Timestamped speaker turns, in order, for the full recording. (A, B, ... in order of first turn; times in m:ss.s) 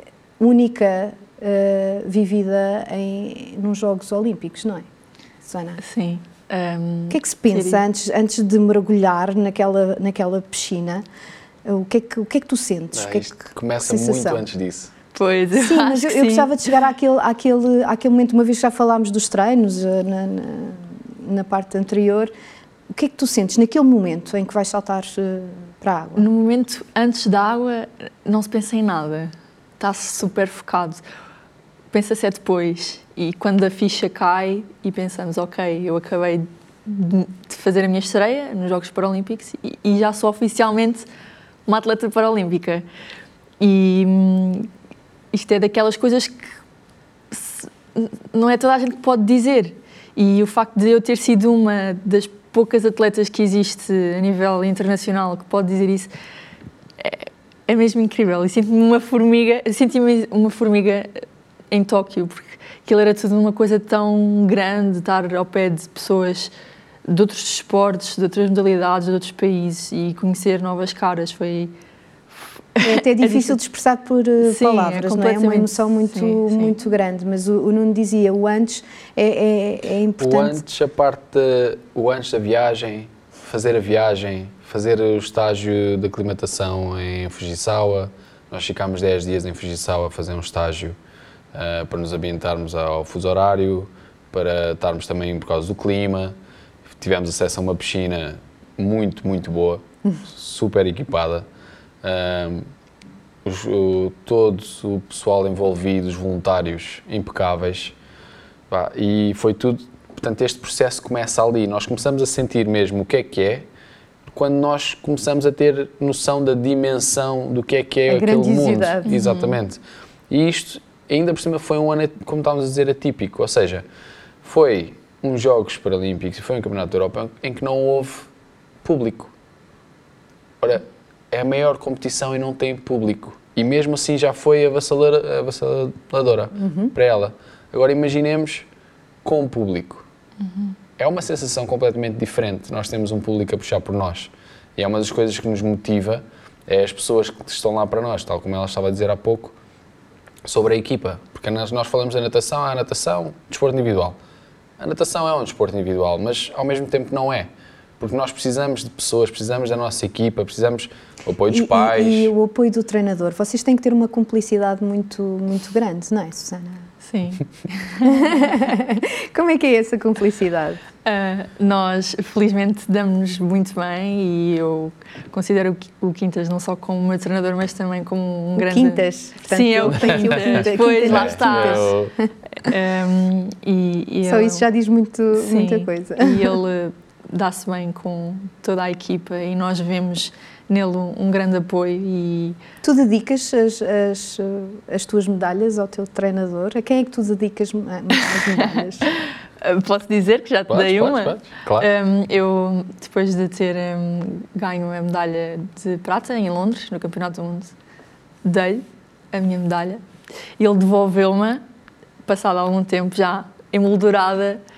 0:00.4-0:04.9 A
0:05.4-0:05.8 A
0:05.8-0:07.8 B
0:07.1-0:11.0 A
0:11.6-0:14.4 A
0:12.9-0:14.9 C
0:15.1-0:16.6 B
0:15.6-0:22.3 A
0:22.9-0:26.3 A
0:26.2-0:31.0 B
0:31.9-0:41.1 B
0:41.7-0:42.9 B
0:43.6-0:44.7 B
0:45.3-0:46.6 B
0:47.3-0:56.1 B
0:57.0-1:06.5 B
1:07.0-1:11.7 B
1:12.8-1:13.6 B
1:12.8-1:20.6 A
1:14.4-1:16.8 B
1:20.2-1:31.0 C
1:31.5-1:36.4 C
1:37.0-1:41.5 C
1:42.0-1:42.6 C
1:43.4-1:48.0 C
1:48.7-1:53.7 C
1:54.3-2:03.8 C
1:58.1-1:59.1 A
1:59.0-1:59.6 B
2:04.4-2:08.3 C
2:08.8-2:09.3 C
2:10.6-2:18.7 C
2:16.6-2:16.9 A
2:19.2-2:20.0 C
2:20.4-2:20.8 B
2:21.0-2:29.5 C
2:30.4-2:34.2 C
2:34.8-2:37.5 C
2:38.0-2:42.3 C
2:41.5-2:46.9 A
2:47.0-2:48.4 B
2:48.0-2:50.8 A
2:51.0-3:02.0 B
2:58.6-3:02.7 A
2:59.9-3:02.1 C
3:02.5-3:04.6 B
3:04.3-3:06.6 A
3:05.3-3:12.6 B
3:12.8-3:19.1 A
3:19.1-3:27.7 B
3:20.7-3:21.9 C
3:28.4-3:30.0 B
3:30.6-3:31.6 B
3:32.3-3:34.6 B